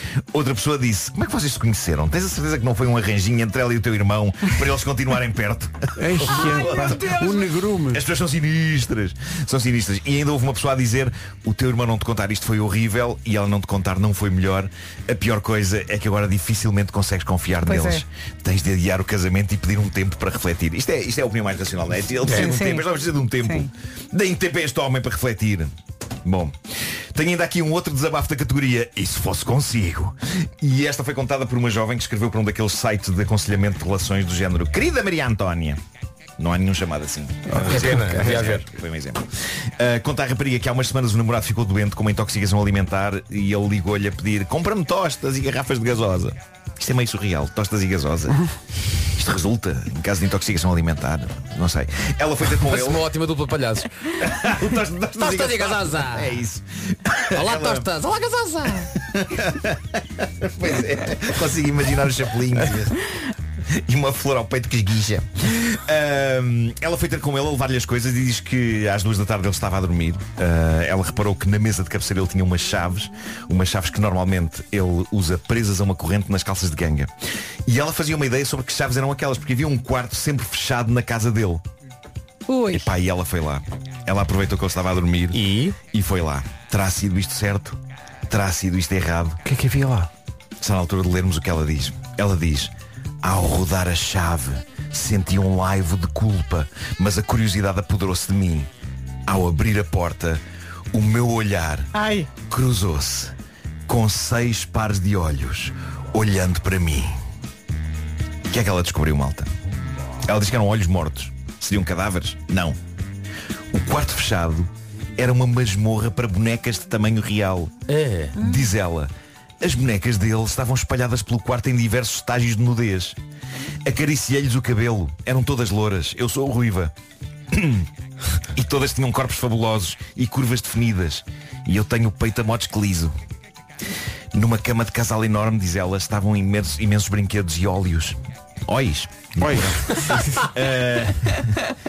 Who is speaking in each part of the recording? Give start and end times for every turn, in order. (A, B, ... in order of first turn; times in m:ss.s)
0:00.3-0:07.3 A
0:06.0-0:08.0 B
0:06.4-0:07.5 C
0:07.9-0:25.7 A
0:17.7-0:18.0 C
0:22.3-0:22.9 C
0:23.4-0:23.7 C
0:26.2-0:26.6 A
0:27.2-0:35.8 A
0:36.4-0:48.4 A
0:37.6-0:38.7 D
0:49.2-0:53.1 A
0:52.6-0:53.9 D
0:54.2-0:57.9 A
0:55.2-0:56.4 D
0:57.3-0:58.9 D
0:59.3-1:03.0 A
1:03.8-1:17.1 A
1:17.7-1:21.6 A
1:22.5-1:22.9 C
1:22.7-1:29.4 A
1:25.3-1:25.8 D
1:29.4-1:30.1 B
1:30.6-1:38.7 A
1:39.3-1:40.4 A
1:40.9-1:43.3 A
1:41.9-1:42.3 C
1:43.9-1:47.2 A
1:48.5-1:49.5 A
1:50.2-1:52.8 A
1:53.7-1:57.8 A
1:57.9-1:58.4 D
1:58.4-2:03.2 A
2:03.8-2:06.9 A
2:07.5-2:07.9 A
2:08.5-2:13.2 A
2:14.3-2:21.5 A
2:19.4-2:20.5 B